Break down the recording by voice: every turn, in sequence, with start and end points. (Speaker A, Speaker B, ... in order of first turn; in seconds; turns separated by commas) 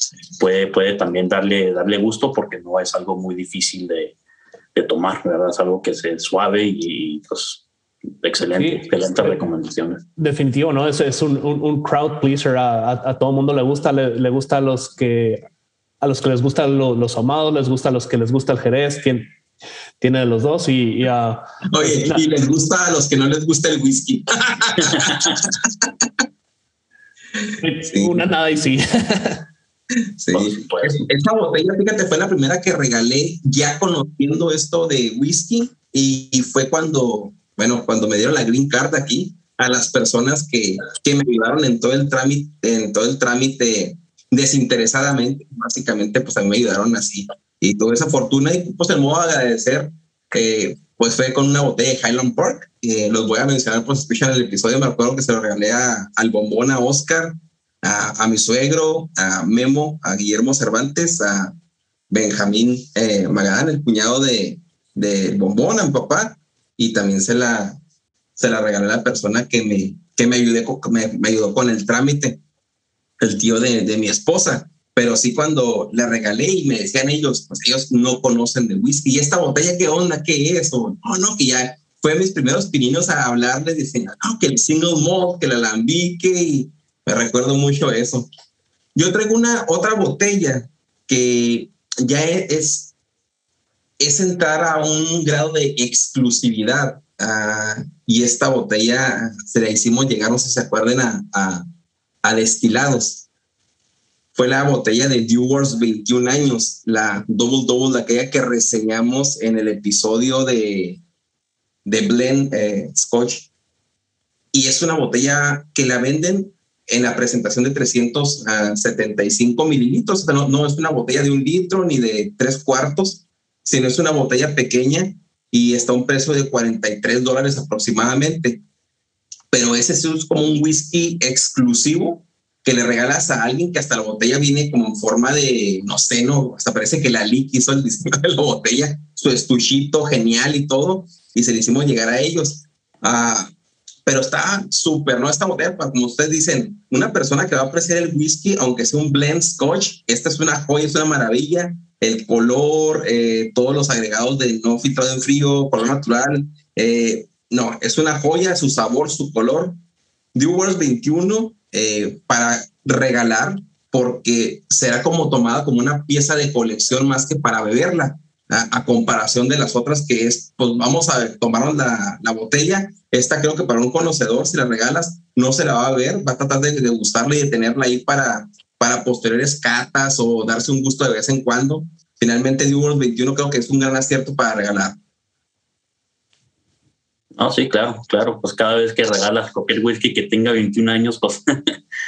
Speaker A: 0.4-4.1, Speaker A: 4.7-7.6, Speaker A: 8.2-10.0, Speaker B: 8.5-9.4, Speaker B: 10.2-15.4, Speaker B: 16.0-19.2, Speaker B: 20.0-22.3, Speaker C: 21.7-26.0, Speaker B: 27.6-29.5, Speaker C: 27.9-28.2, Speaker C: 30.2-61.5, Speaker A: 30.3-31.1, Speaker C: 62.1-67.8, Speaker C: 68.4-72.4, Speaker C: 73.2-88.3, Speaker C: 88.9-92.9, Speaker C: 94.0-101.6, Speaker C: 102.2-103.2, Speaker C: 104.3-111.0, Speaker C: 111.8-113.5, Speaker C: 114.5-128.6, Speaker C: 129.5-143.5, Speaker C: 144.1-159.8, Speaker C: 160.3-185.0, Speaker A: 187.4-191.7